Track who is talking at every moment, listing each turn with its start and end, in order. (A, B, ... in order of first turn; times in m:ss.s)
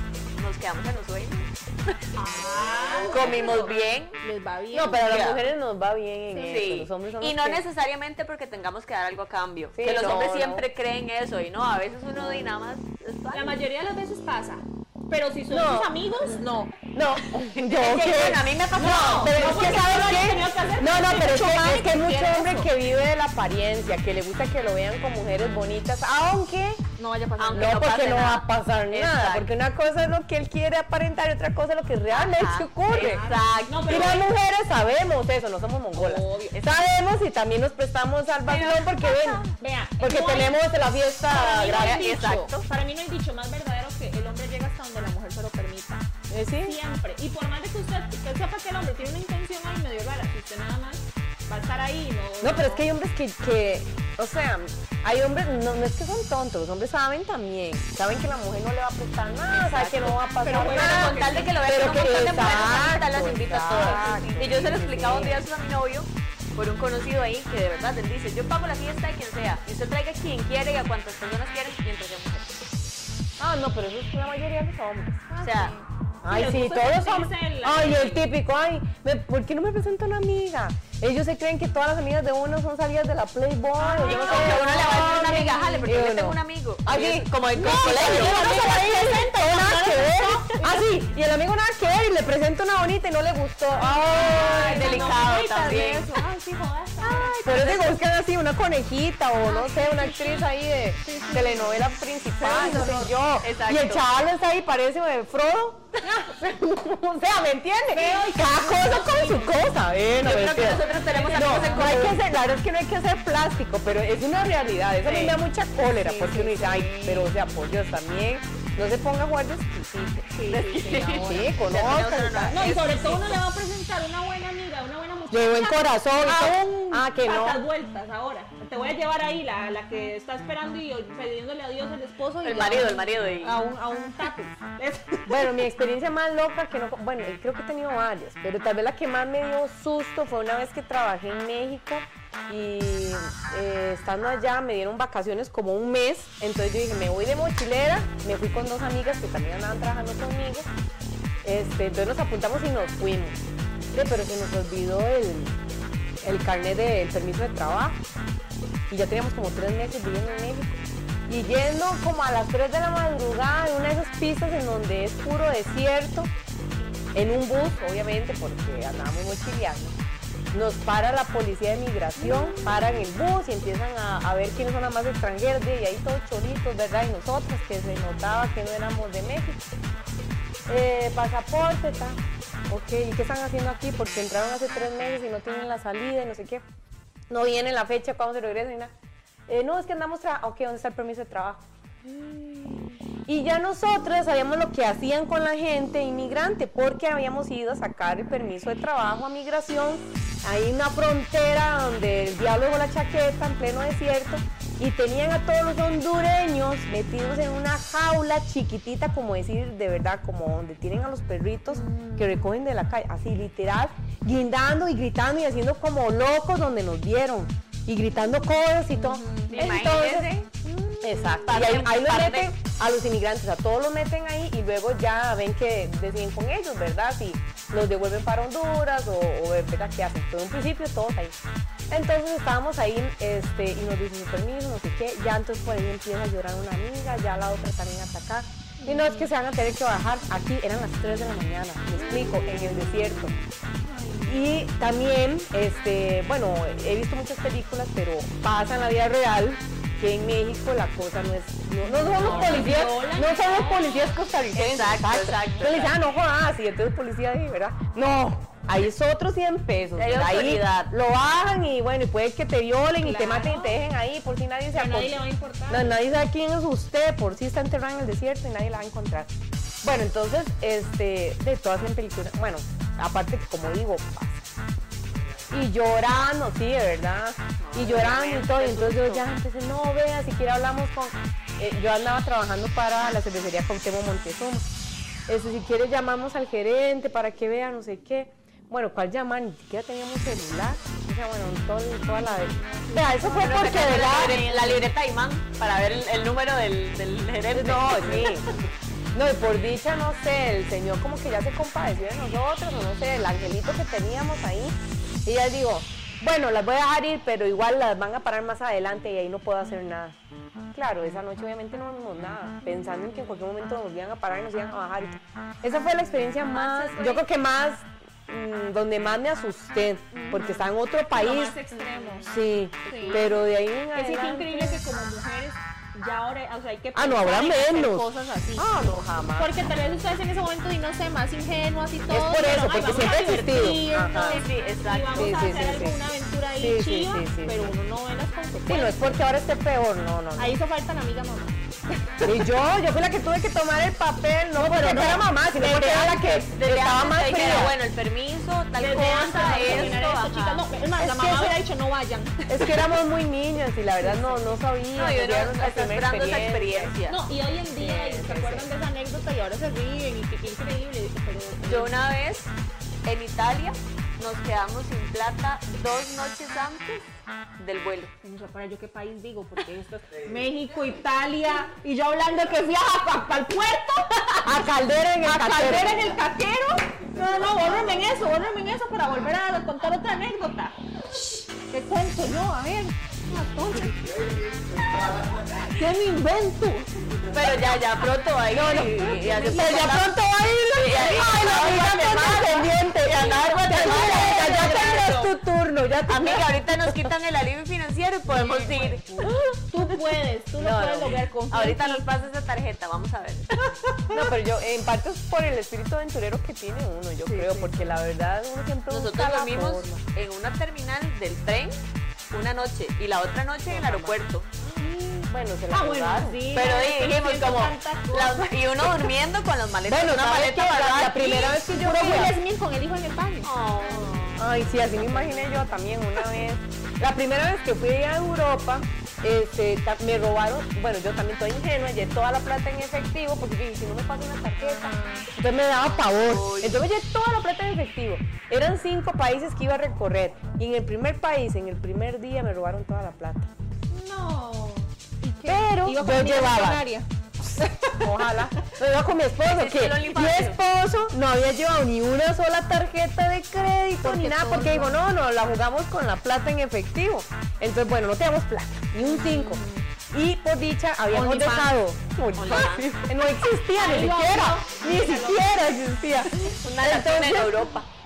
0:00.3-0:02.0 A
0:02.1-0:05.2 B
0:03.0-0:04.2 A
0:04.7-0:07.6 C
0:05.0-0:05.4 A
0:06.3-0:06.6 B
0:06.4-0:13.6 A
0:09.7-0:10.6 C
0:13.3-0:16.7 B
0:15.5-0:16.0 C
0:16.9-0:26.8 C
0:17.5-0:19.5 A
0:18.7-0:22.7 B
0:27.0-0:27.9 B
0:27.4-0:29.5 A
0:27.5-0:33.2 C
0:32.1-0:34.2 A
0:32.9-0:34.2 B
0:33.8-0:39.4 C
0:35.9-0:36.6 B
0:38.5-0:39.4 A
0:39.4-0:40.6 B
0:40.0-0:42.1 C
0:41.3-0:46.0 B
0:41.3-0:42.6 A
0:46.3-0:46.8 C
0:46.6-0:52.8 B
0:52.4-1:05.4 C
0:59.5-1:12.5 A
1:00.4-1:02.9 B
1:03.7-1:04.7 B
1:13.4-1:15.3 C
1:15.3-1:18.2 B
1:15.4-1:15.8 A
1:16.2-1:35.1 C
1:23.8-1:25.8 B
1:24.0-1:28.9 A
1:27.5-1:30.8 B
1:33.8-1:37.4 B
1:34.2-1:36.2 A
1:37.1-2:02.7 C
1:37.1-1:37.9 A
1:39.4-1:40.5 B
1:41.0-1:41.8 B
1:42.4-1:43.0 B
1:42.4-1:44.0 A
1:47.9-1:49.5 B
1:50.2-1:52.2 A
1:50.9-1:52.0 B
1:55.0-1:55.4 A
1:56.0-1:57.3 B
2:00.3-2:01.3 B
2:00.5-2:03.4 A
2:02.5-2:15.6 B
2:05.3-2:07.6 C
2:12.4-2:13.6 A
2:15.3-2:30.7 C
2:31.4-2:35.6 C
2:36.2-2:38.0 C
2:38.9-2:46.3 C
2:47.1-2:50.0 C
2:50.5-2:59.6 C
2:52.2-2:52.7 B
3:00.7-3:06.6 C
3:07.3-3:08.9 C
3:09.5-3:11.6 C
3:12.0-3:13.0 B
3:13.2-3:40.3 C
3:31.7-3:32.4 B
3:38.9-3:39.6 B
3:39.5-3:40.5 A
3:40.6-3:41.4 B
3:41.0-3:51.4 C
3:41.5-3:42.5 A
3:51.9-4:03.3 C
3:58.8-3:59.3 B
4:02.0-4:02.8 B
4:03.8-4:04.7 B
4:04.2-4:34.5 C
4:11.8-4:14.1 B
4:12.2-4:12.6 A
4:14.5-4:15.9 A
4:20.0-4:20.9 A
4:23.0-4:23.8 B
4:24.7-4:26.0 B
4:35.5-4:44.7 C
4:37.6-4:39.3 A
4:45.3-4:54.8 C
4:52.0-4:54.8 B
4:53.3-4:58.4 A
4:57.5-4:58.5 C
4:59.1-5:10.2 C
5:10.7-5:21.6 C
5:16.0-5:16.3 B
5:16.4-5:17.2 A
5:20.1-5:23.3 B
5:22.2-5:24.8 C
5:23.9-5:28.7 B
5:26.9-5:29.7 C
5:29.4-5:39.2 B
5:32.1-5:34.4 C
5:34.2-5:35.5 A
5:35.1-5:36.0 C
5:36.6-5:37.7 C
5:38.7-5:40.5 C
5:40.4-5:42.3 B
5:42.2-5:47.8 C
5:44.5-5:46.1 B
5:45.7-5:50.6 A
5:48.7-5:52.8 B
5:49.4-5:50.0 C
5:51.0-5:51.6 C
5:52.5-5:56.9 C
5:54.0-5:54.5 B
5:54.9-5:57.2 A
5:57.1-6:01.9 B
5:57.6-5:58.7 C
6:01.6-6:02.5 A
6:03.0-6:07.0 A
6:07.6-6:08.1 A
6:08.2-6:14.5 B
6:14.4-6:16.1 C
6:15.2-6:20.7 B
6:21.6-6:24.2 B
6:25.5-6:26.9 B
6:27.3-6:30.2 A
6:28.5-6:37.1 C
6:29.4-6:29.7 B
6:30.7-6:35.4 A
6:33.9-6:34.6 B
6:36.1-6:39.1 A
6:38.3-6:42.0 B
6:40.6-6:41.2 C
6:41.5-6:43.5 A
6:44.1-6:50.0 C
6:47.2-6:47.7 B
6:48.9-6:51.8 A
6:52.3-6:54.5 A
6:53.7-6:54.2 C
6:54.6-6:58.8 B
6:55.2-6:56.4 C
6:56.5-7:01.4 A
6:59.8-7:02.4 C
7:01.2-7:05.8 B
7:03.4-7:04.5 A
7:04.4-7:23.5 C
7:14.6-7:15.3 B
7:16.0-7:16.8 A
7:23.9-7:27.0 B
7:25.4-7:26.8 C
7:27.6-7:28.0 B
7:28.0-7:47.7 C
7:29.5-7:30.6 A
7:34.0-7:35.0 B
7:39.0-7:39.8 B
7:41.1-7:41.7 B
7:42.4-7:43.0 A
7:43.7-7:45.6 B
7:46.6-7:47.9 A